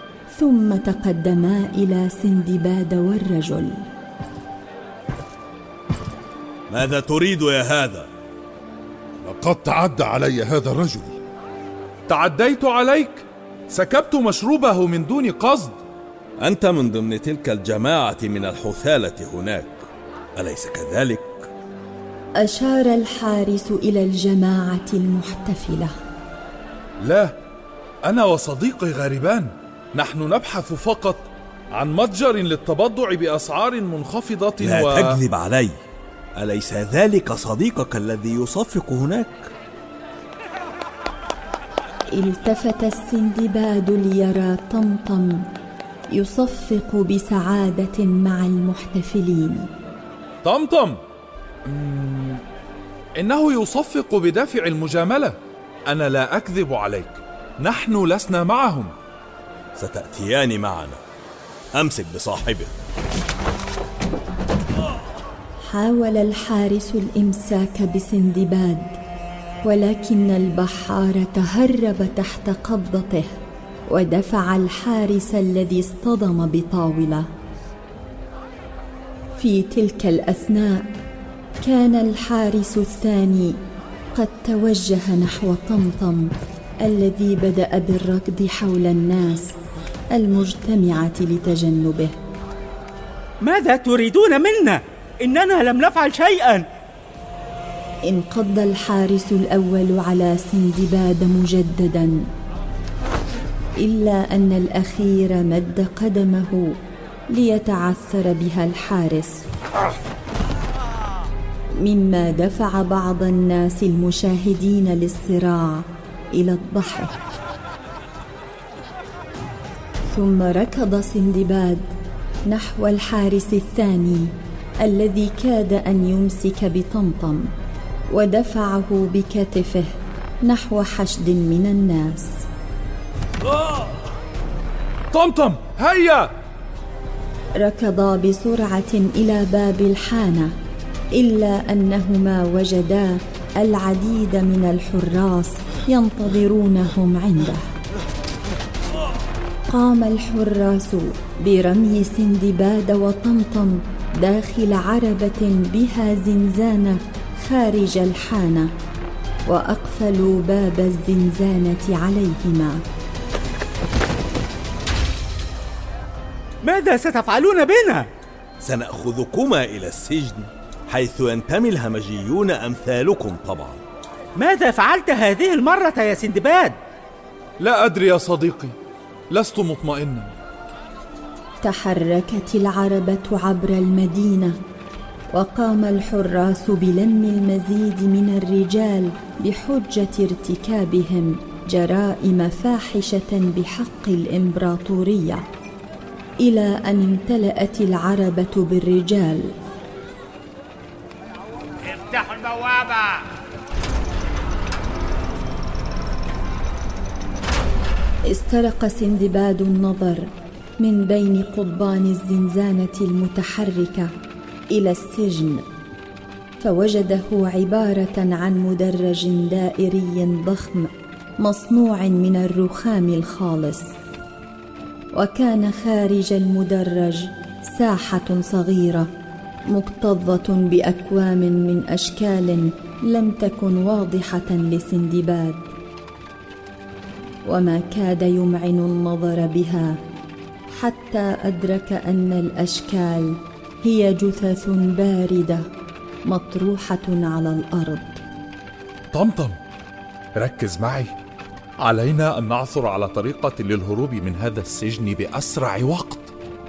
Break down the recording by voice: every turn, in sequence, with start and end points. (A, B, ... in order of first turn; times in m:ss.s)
0:00.3-0:03.9 A
0:06.7-0:08.1 B
0:09.2-0:11.2 C
0:12.1-0:15.8 D
0:16.4-0:19.8 B
0:20.4-0:21.5 B
0:22.4-0:25.9 A
0:27.0-0:27.4 D
0:28.1-0:35.2 D
0:34.6-0:35.8 B
0:36.4-0:39.5 B
0:42.1-0:45.4 A
0:46.1-0:49.7 A
0:50.4-0:51.0 D
0:51.7-0:52.4 D
0:53.2-0:55.4 D
0:55.9-0:58.9 D
0:59.8-1:01.0 B
1:01.7-1:02.7 B
1:05.7-1:09.0 A
1:09.6-1:13.3 A
1:13.9-1:17.3 A
1:19.4-1:20.9 A
1:21.6-1:23.6 A
1:24.1-1:29.5 A
1:30.1-1:32.2 A
1:33.4-1:36.7 E
1:38.1-1:42.2 A
1:43.8-1:46.7 A
1:47.3-1:49.5 A
1:51.8-1:57.2 A
2:00.1-2:01.8 A
2:02.5-2:07.5 A
2:08.1-2:12.3 A
2:15.1-2:16.3 D
2:17.6-2:20.5 A
2:21.2-2:27.6 A
2:29.7-2:38.7 A
2:39.5-2:42.8 A
2:46.6-2:48.1 E
2:48.6-2:53.8 B
2:54.4-2:56.8 E
2:57.6-2:58.8 D
2:59.3-3:00.3 D
3:01.6-3:04.6 A
3:05.3-3:15.4 A
3:16.4-3:19.5 A
3:28.3-3:34.1 A
3:34.7-3:35.6 A
3:36.6-3:40.9 A
3:41.4-3:43.9 A
3:45.1-3:49.1 A
3:49.7-3:55.7 A
3:57.5-4:00.0 A
4:00.8-4:05.6 A
4:06.3-4:08.2 A
4:09.1-4:09.6 D
4:10.4-4:11.1 D
4:11.8-4:16.3 D